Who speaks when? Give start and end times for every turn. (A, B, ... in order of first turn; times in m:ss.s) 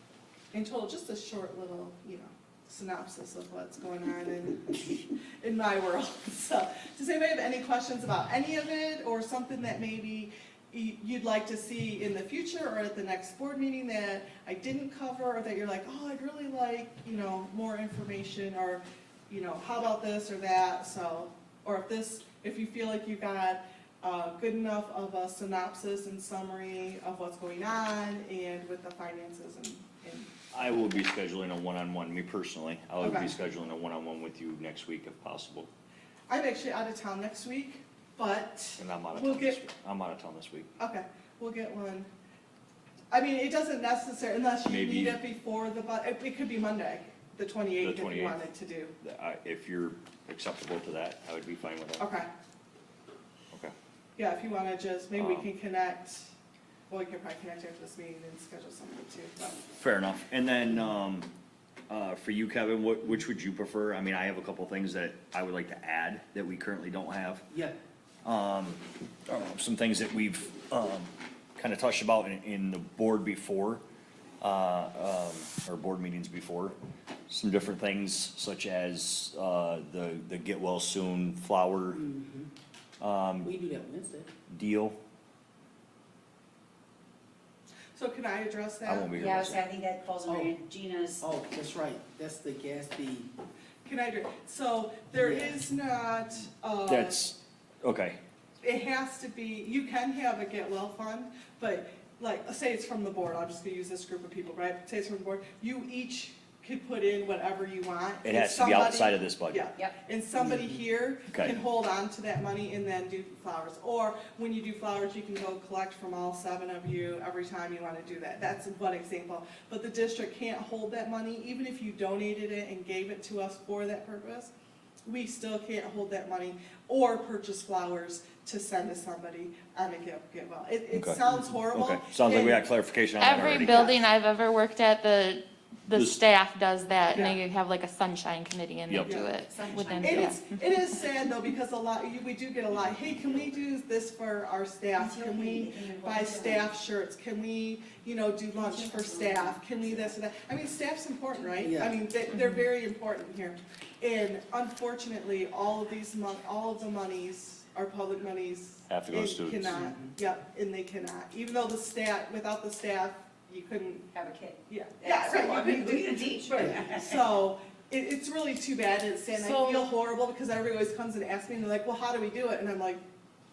0:00.5-0:31.0 A
0:30.5-0:35.7 B
0:33.0-0:33.3 A
0:36.3-0:39.6 A
0:38.8-0:40.7 B
0:40.8-0:42.1 A
0:43.1-0:48.9 A
0:44.6-0:45.2 B
0:47.8-0:48.4 B
0:49.0-0:52.1 B
0:52.0-0:52.3 A
0:54.2-0:56.3 A
0:55.1-0:55.5 B
0:56.9-0:59.6 A
0:59.8-1:01.3 B
1:01.9-1:07.4 B
1:07.5-1:07.8 C
1:08.2-1:13.8 B
1:14.4-1:16.8 B
1:17.3-1:22.0 B
1:21.9-1:22.5 C
1:23.0-1:23.5 B
1:23.4-1:24.3 C
1:24.5-1:25.0 B
1:27.9-1:29.1 A
1:28.8-1:29.6 B
1:29.1-1:31.2 D
1:30.2-1:30.5 C
1:31.2-1:33.3 C
1:33.8-1:37.3 A
1:35.1-1:35.6 C
1:36.9-1:38.2 B
1:38.6-2:04.5 A
1:48.2-1:49.6 B
1:50.4-1:50.7 C
2:05.0-2:12.6 A
2:10.9-2:11.2 B
2:11.7-2:13.9 B
2:13.2-2:20.4 E
2:13.3-2:14.1 A
2:15.9-2:16.3 B
2:17.1-2:17.4 A
2:18.9-2:19.2 B
2:19.0-2:19.4 A
2:19.5-2:20.2 D
2:20.0-2:44.1 A
2:25.0-2:26.7 D
2:28.6-2:30.1 D
2:31.6-2:32.0 C
2:38.9-2:39.7 B
2:39.7-2:40.1 C
2:44.1-2:47.4 D
2:44.7-2:53.0 A